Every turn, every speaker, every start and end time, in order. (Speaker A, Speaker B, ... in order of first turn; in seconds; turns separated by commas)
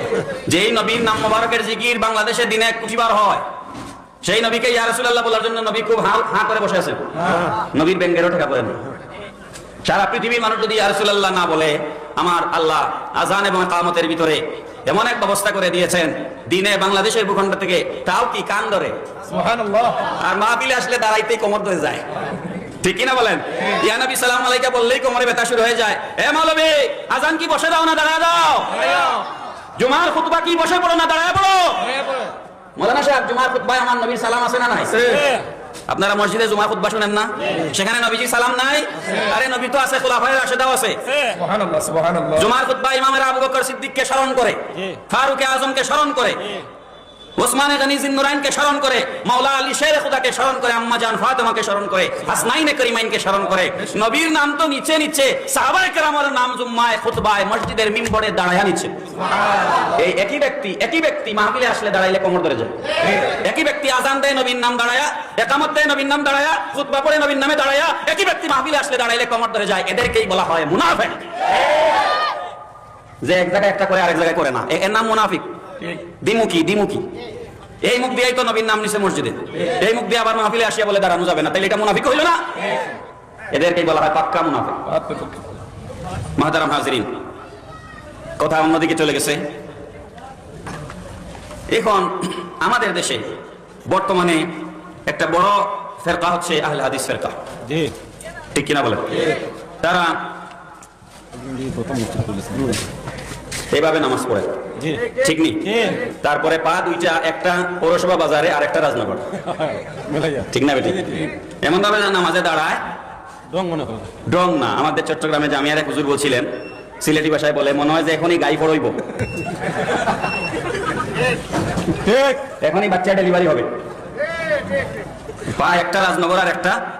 Speaker A: 0.5-3.4, Speaker A: 4.2-8.8, Speaker A: 9.8-18.9, Speaker B: 19.3-20.1, Speaker A: 20.2-22.0, Speaker A: 22.8-29.1, Speaker A: 29.8-32.0, Speaker A: 32.8-35.1, Speaker B: 35.0-35.4, Speaker A: 35.9-41.0, Speaker B: 41.3-42.5, Speaker A: 42.4-46.6, Speaker A: 47.4-58.9, Speaker A: 59.9-71.2, Speaker A: 73.2-75.5, Speaker A: 76.2-77.0, Speaker A: 77.8-82.4, Speaker A: 83.5-84.8, Speaker B: 84.9-85.5, Speaker A: 86.4-87.1, Speaker A: 88.4-89.4, Speaker A: 91.7-93.3, Speaker A: 93.9-94.5, Speaker A: 95.1-97.4, Speaker A: 98.5-99.2, Speaker A: 99.8-100.2, Speaker C: 101.5-102.8, Speaker A: 103.7-104.5, Speaker A: 105.2-109.3, Speaker C: 110.1-110.4, Speaker A: 110.4-112.8, Speaker C: 113.5-114.0, Speaker A: 114.3-116.5, Speaker A: 117.0-119.0, Speaker C: 122.1-122.4, Speaker A: 122.6-123.7, Speaker A: 125.5-126.8